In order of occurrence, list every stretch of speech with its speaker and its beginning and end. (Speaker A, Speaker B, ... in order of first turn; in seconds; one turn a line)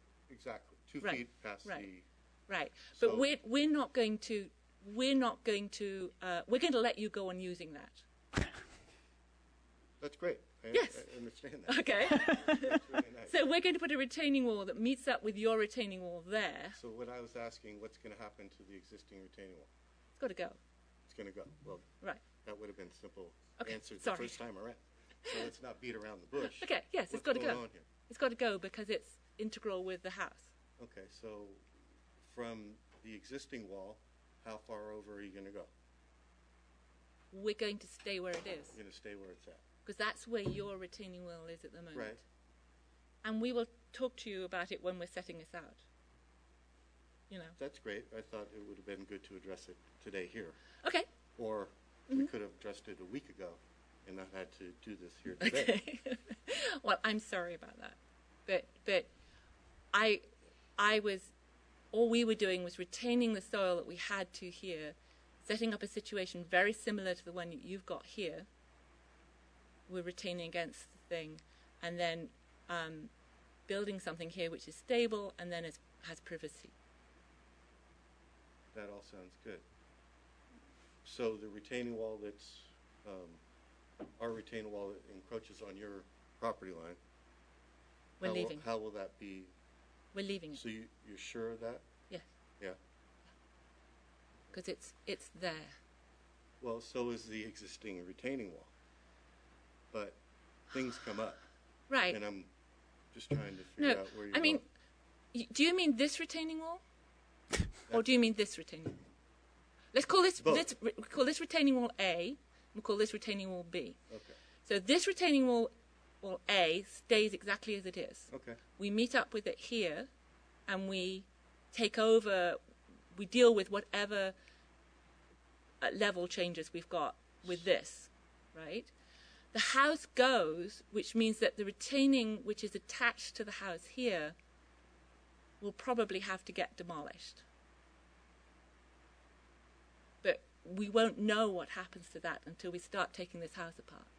Speaker A: 0.3-2.0
Speaker B: 1.0-1.9
Speaker B: 2.5-8.0
Speaker A: 2.9-3.3
Speaker A: 10.0-13.4
Speaker B: 10.7-11.1
Speaker B: 11.7-16.8
Speaker A: 16.7-19.7
Speaker B: 20.2-20.6
Speaker A: 21.1-21.9
Speaker A: 22.4-27.9
Speaker B: 23.6-24.4
Speaker B: 25.2-25.5
Speaker B: 26.4-30.5
Speaker A: 30.8-31.7
Speaker A: 32.2-35.7
Speaker B: 37.3-38.8
Speaker A: 38.7-39.6
Speaker B: 39.9-42.2
Speaker A: 41.9-42.2
Speaker B: 43.2-45.8
Speaker B: 47.3-47.5
Speaker A: 47.6-50.6
Speaker A: 51.4-55.8
Speaker B: 55.4-59.1
Speaker B: 59.9-60.2
Speaker B: 60.8-61.3
Speaker B: 61.9-68.5
Speaker B: 69.9-73.1
Speaker B: 73.7-76.7
Speaker A: 78.7-79.6
Speaker A: 81.0-83.4
Speaker A: 84.2-87.0
Speaker B: 88.2-88.6
Speaker A: 88.2-89.5
Speaker B: 90.1-90.6
Speaker A: 90.5-91.9
Speaker B: 94.5-95.8
Speaker A: 96.6-98.7
Speaker A: 99.9-100.2
Speaker A: 100.7-101.4
Speaker B: 101.9-102.2
Speaker A: 102.1-102.5
Speaker A: 103.1-104.6
Speaker B: 103.8-104.6
Speaker B: 105.3-106.8
Speaker B: 107.9-109.0
Speaker B: 109.9-114.0
Speaker A: 110.4-110.7
Speaker A: 114.1-114.4
Speaker B: 114.6-115.7
Speaker B: 116.2-120.1
Speaker A: 118.3-118.6
Speaker B: 120.7-122.6
Speaker B: 123.1-124.3
Speaker B: 125.8-128.9
Speaker B: 129.5-134.3
Speaker B: 135.6-137.4
Speaker B: 140.2-144.1